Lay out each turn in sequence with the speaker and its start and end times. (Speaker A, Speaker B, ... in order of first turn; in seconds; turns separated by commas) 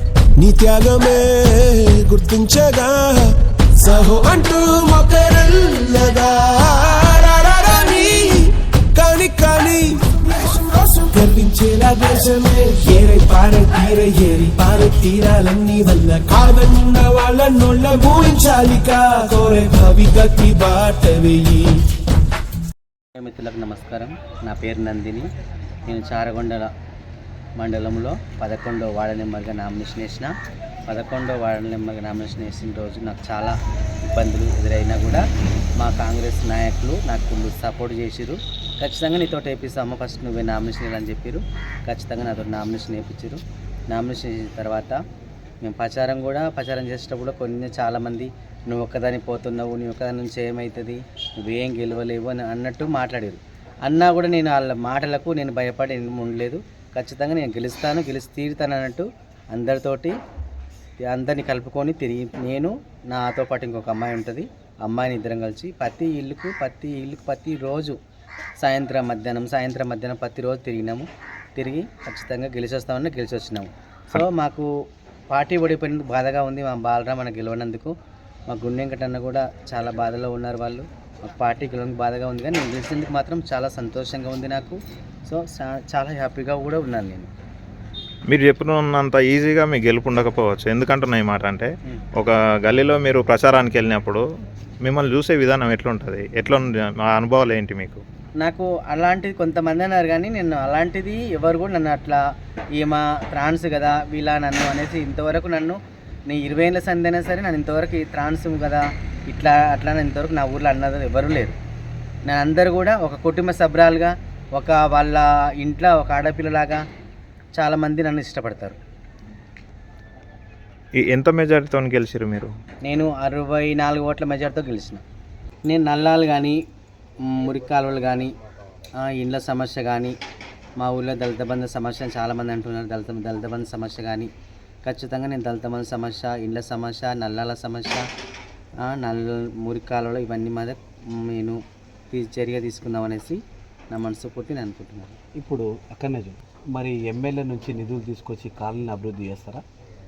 Speaker A: 0.4-21.8, Speaker B: 23.2-25.3, Speaker B: 25.9-26.7, Speaker B: 27.6-30.3, Speaker B: 30.9-33.6, Speaker B: 34.1-35.2, Speaker B: 35.8-45.0, Speaker B: 45.6-60.2, Speaker B: 61.0-68.0, Speaker B: 68.6-74.7, Speaker B: 75.3-77.9, Speaker B: 78.5-87.3, Speaker C: 88.3-94.2, Speaker C: 94.8-98.0, Speaker B: 98.4-111.6, Speaker B: 112.3-116.8, Speaker B: 117.6-118.8, Speaker C: 121.0-122.5, Speaker B: 122.8-125.0, Speaker B: 125.7-126.6, Speaker B: 127.2-128.3, Speaker B: 129.0-130.2, Speaker B: 130.8-134.3, Speaker B: 134.8-138.1, Speaker B: 138.8-141.6, Speaker B: 142.1-145.2, Speaker D: 145.4-149.6